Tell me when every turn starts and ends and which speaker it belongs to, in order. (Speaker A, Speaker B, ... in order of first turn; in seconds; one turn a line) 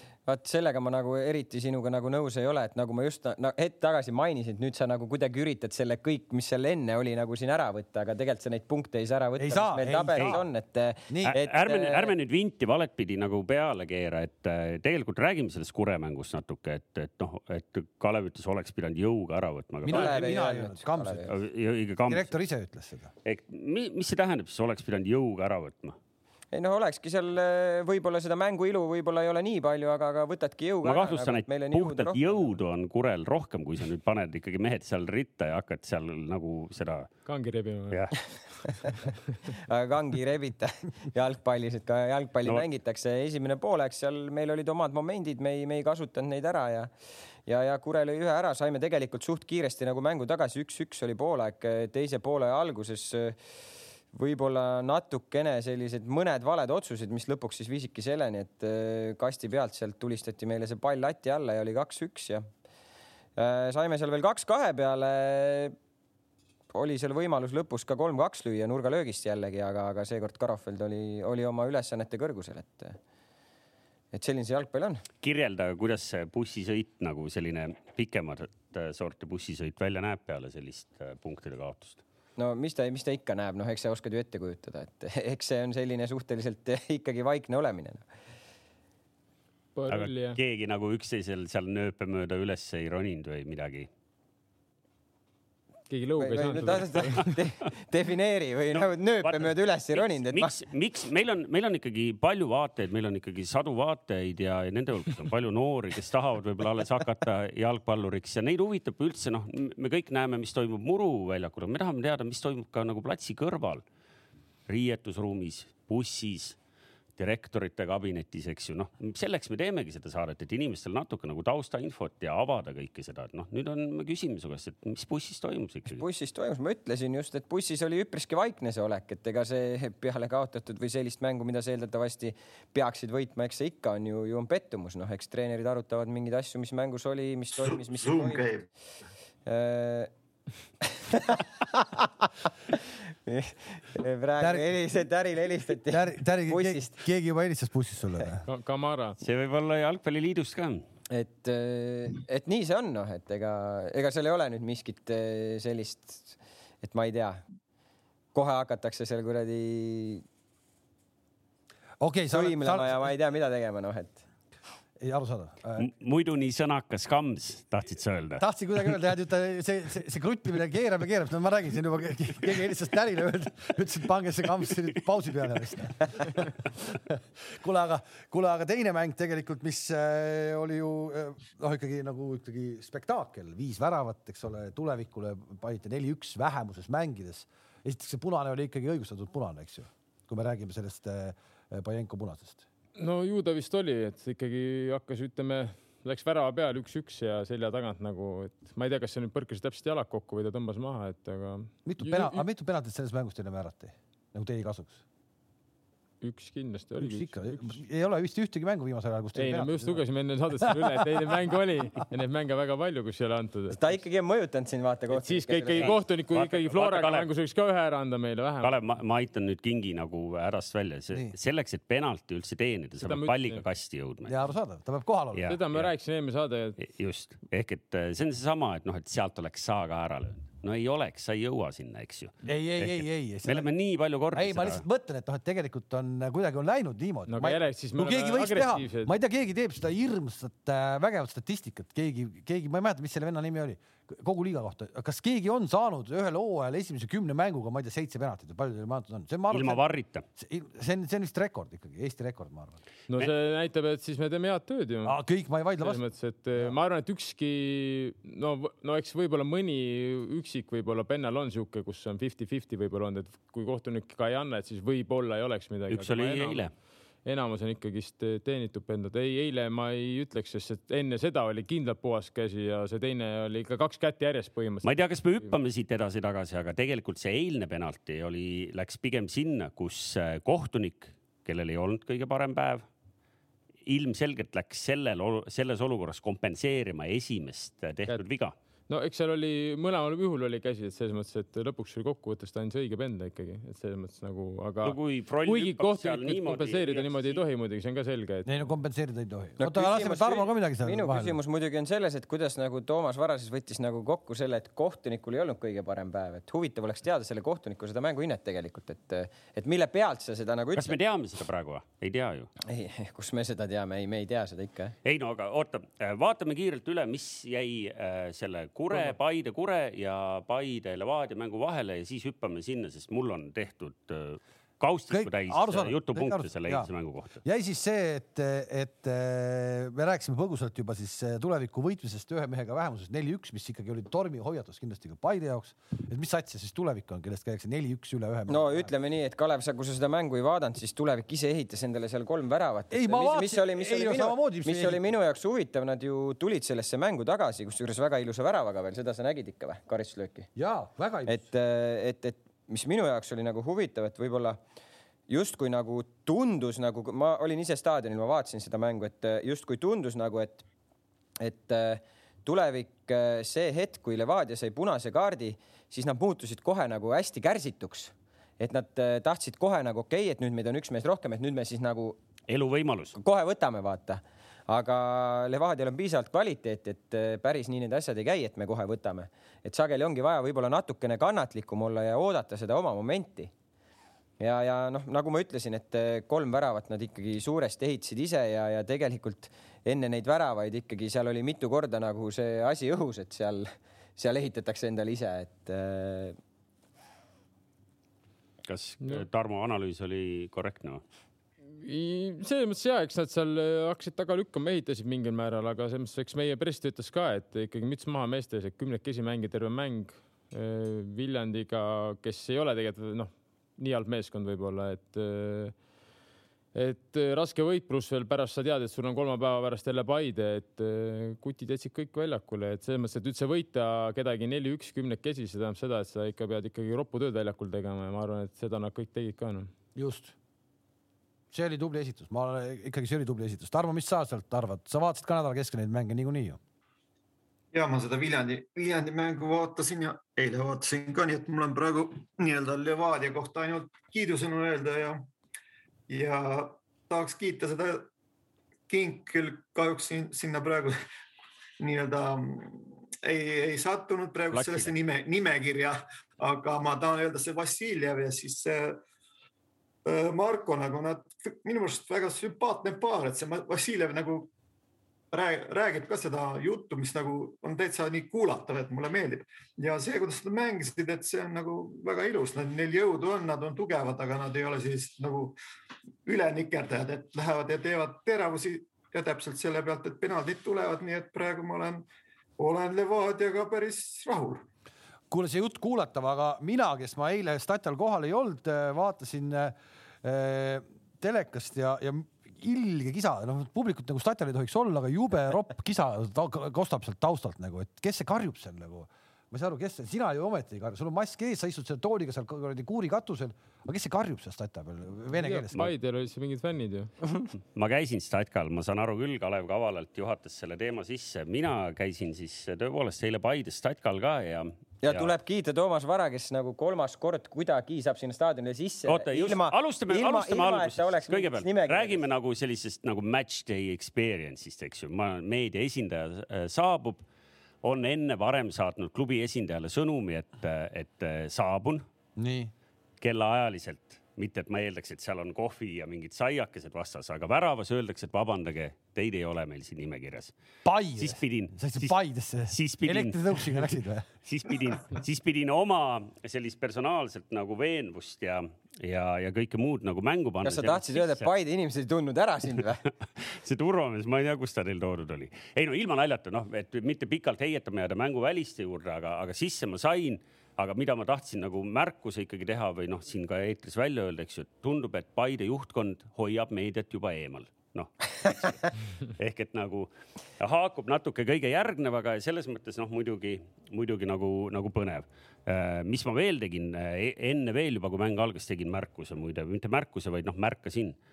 Speaker A: 0.3-12.1
Speaker B: 9.4-10.4
Speaker B: 11.1-11.3
Speaker C: 11.2-20.4
Speaker B: 19.8-21.2
Speaker A: 19.9-21.3
Speaker C: 21.3-22.3
Speaker B: 22.1-23.1
Speaker C: 23.2-26.0
Speaker A: 26.5-32.5
Speaker C: 30.8-37.1
Speaker D: 37.2-38.1
Speaker C: 37.9-38.2
Speaker A: 39.6-46.9
Speaker A: 47.5-53.4
Speaker A: 54.1-62.5
Speaker A: 63.4-65.8
Speaker A: 66.7-73.0
Speaker A: 74.1-75.0
Speaker C: 75.2-82.0
Speaker A: 82.4-88.0
Speaker D: 89.8-90.4
Speaker C: 89.9-93.9
Speaker D: 95.9-97.4
Speaker A: 96.2-100.6
Speaker C: 98.8-113.8
Speaker C: 114.7-116.6
Speaker C: 117.2-126.0
Speaker A: 125.9-138.5
Speaker E: 137.9-138.7
Speaker A: 139.4-140.1
Speaker A: 140.8-142.1
Speaker A: 143.2-147.0
Speaker B: 145.9-148.4
Speaker D: 148.4-149.2
Speaker C: 149.2-150.8
Speaker A: 151.1-157.4
Speaker A: 158.3-160.2
Speaker B: 162.0-162.9
Speaker A: 162.3-164.2
Speaker B: 165.0-165.8
Speaker C: 165.8-168.4
Speaker B: 168.4-192.6
Speaker D: 193.0-202.4
Speaker B: 201.8-205.0
Speaker D: 206.2-207.7
Speaker B: 207.0-210.0
Speaker D: 209.3-214.0
Speaker B: 210.6-211.1
Speaker A: 213.7-215.9
Speaker D: 215.1-218.7
Speaker C: 215.8-217.3
Speaker C: 218.6-224.4
Speaker D: 223.0-223.6
Speaker B: 224.2-225.5
Speaker C: 225.3-225.9
Speaker D: 225.5-226.8
Speaker C: 226.8-234.8
Speaker B: 232.4-233.7
Speaker B: 234.3-249.8
Speaker D: 237.3-239.1
Speaker C: 249.5-250.2
Speaker B: 250.4-252.8
Speaker D: 253.1-255.1
Speaker B: 255.0-256.0
Speaker D: 255.8-266.6
Speaker C: 265.9-266.7
Speaker D: 267.2-275.5
Speaker C: 274.8-282.9
Speaker C: 283.9-288.5
Speaker D: 288.9-298.5
Speaker C: 294.8-297.4
Speaker B: 298.4-301.4
Speaker A: 299.6-310.9
Speaker C: 310.7-312.5
Speaker A: 312.6-314.9
Speaker C: 315.0-327.4
Speaker B: 325.1-326.9
Speaker B: 327.4-338.9
Speaker A: 338.5-350.5
Speaker B: 342.9-345.0
Speaker B: 350.6-351.4
Speaker A: 351.3-354.6
Speaker A: 355.3-360.6
Speaker A: 361.4-372.2
Speaker C: 372.5-373.2
Speaker A: 373.1-383.5
Speaker A: 384.4-396.4
Speaker C: 398.6-401.0
Speaker D: 401.8-415.8
Speaker D: 416.7-429.7
Speaker B: 429.9-430.3
Speaker B: 431.5-436.6
Speaker E: 437.7-445.2
Speaker E: 446.1-448.1
Speaker E: 448.9-450.9
Speaker E: 451.8-459.0
Speaker C: 454.5-454.9
Speaker E: 460.0-464.5
Speaker E: 465.3-475.6
Speaker E: 476.2-482.0
Speaker E: 482.6-484.6
Speaker B: 485.3-505.9
Speaker D: 505.3-507.1
Speaker C: 507.7-515.3
Speaker A: 515.0-522.2
Speaker C: 519.1-527.2
Speaker C: 527.8-532.0
Speaker B: 532.4-532.7
Speaker C: 533.2-540.5
Speaker B: 540.8-545.0
Speaker C: 541.2-543.9
Speaker C: 544.4-551.5
Speaker A: 550.6-553.0
Speaker C: 553.4-581.2